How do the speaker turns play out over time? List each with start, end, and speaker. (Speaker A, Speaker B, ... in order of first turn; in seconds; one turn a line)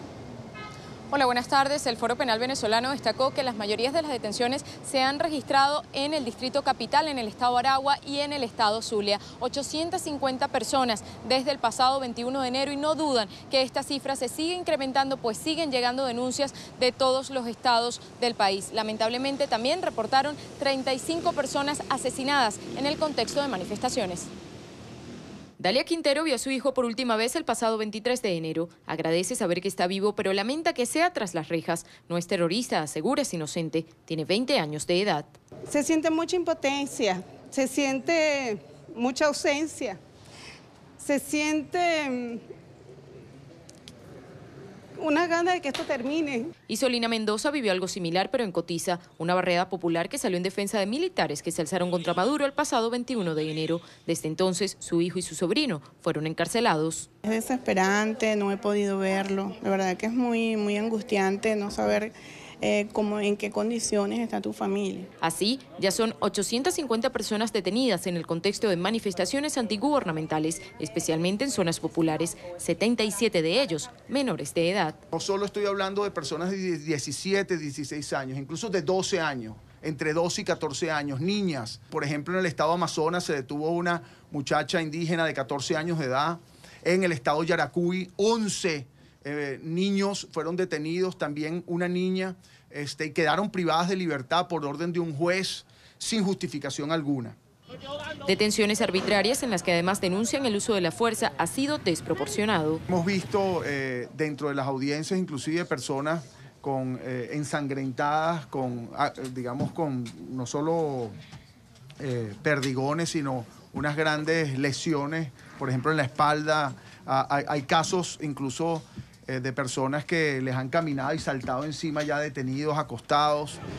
Speaker A: 1.1-24.3
Speaker A: 25.6-35.3
Speaker B: 35.7-40.0
Speaker B: 41.0-42.4
Speaker B: 45.0-46.5
Speaker A: 46.7-57.1
Speaker B: 57.2-65.1
Speaker A: 65.2-75.0
Speaker C: 75.1-97.4
Speaker A: 98.3-102.8
Speaker C: 102.9-111.1
Speaker C: 112.0-123.6